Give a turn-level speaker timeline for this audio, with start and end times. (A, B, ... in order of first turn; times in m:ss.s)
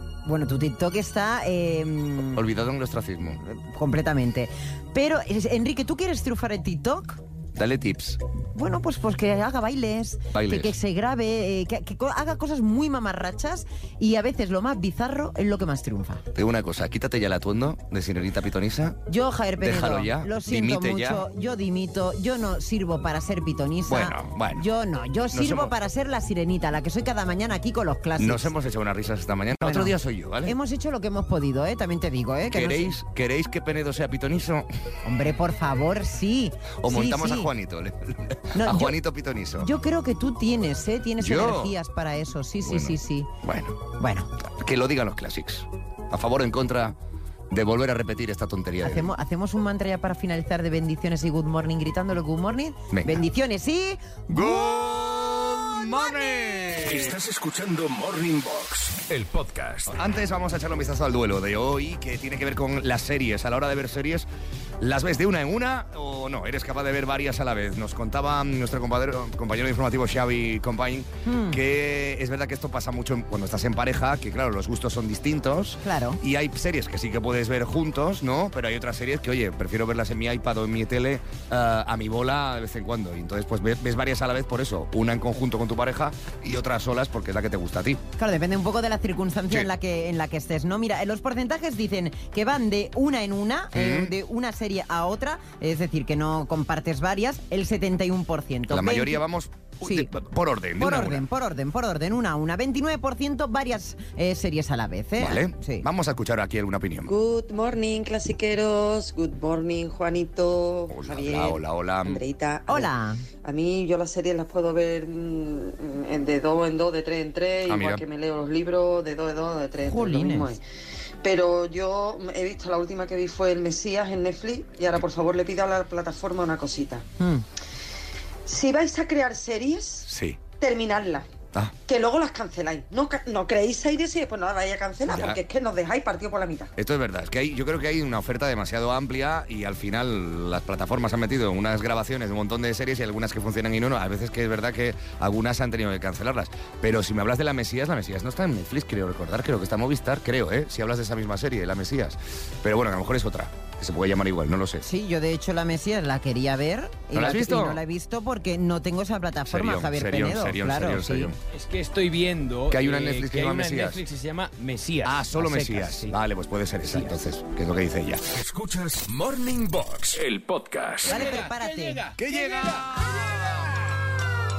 0:00.2-0:02.4 A
0:02.4-0:03.4 B
0:03.4-0:07.2 A
0:07.6-0:08.2 B
0:08.6-0:16.2 A
0:10.3-0:10.7 B
0:16.3-0:19.0 B
0:19.1-0:28.5 A
0:19.6-0:21.2 B
0:23.9-0:24.7 B
0:25.3-0:25.7 B
0:28.2-0:30.6 B
0:29.6-0:33.0 A
0:32.5-0:34.7 B
0:35.0-0:37.5 A
0:36.8-0:39.7 B
0:38.5-0:39.0 A
0:39.6-0:43.3 A
0:41.2-0:41.8 B
0:42.6-0:43.8 B
0:44.0-0:44.3 A
0:44.4-0:47.0 B
0:47.5-0:49.1 B
0:48.8-0:54.8 A
0:52.9-0:53.2 B
0:54.3-0:57.2 B
0:56.8-1:00.0 C
0:59.9-1:04.3 B
1:04.8-1:28.0 B
1:11.3-1:11.6 A
1:15.8-1:16.2 A
1:28.2-1:39.2 A
1:33.8-1:34.1 B
1:38.7-1:41.3 B
1:39.8-1:40.1 A
1:40.8-1:45.8 A
1:45.2-1:47.1 B
1:47.1-2:00.6 D
1:50.9-1:52.2 B
1:52.7-1:53.2 A
1:57.7-1:58.0 B
1:59.8-2:00.6 A
2:01.2-2:07.1 D
2:07.2-2:07.4 A
2:08.4-2:11.3 D
2:10.1-2:10.4 B
2:11.9-2:16.7 D
2:15.0-2:15.4 B
2:16.8-2:34.8 B
2:34.8-2:41.3 A
2:37.1-2:37.8 B
2:39.5-2:41.4 B
2:41.5-2:46.2 E
2:42.7-2:44.0 B
2:45.0-2:48.2 B
2:46.8-2:47.2 E
2:48.3-2:51.3 C
2:51.0-2:52.1 A
2:51.1-2:52.1 E
2:52.2-2:53.7 B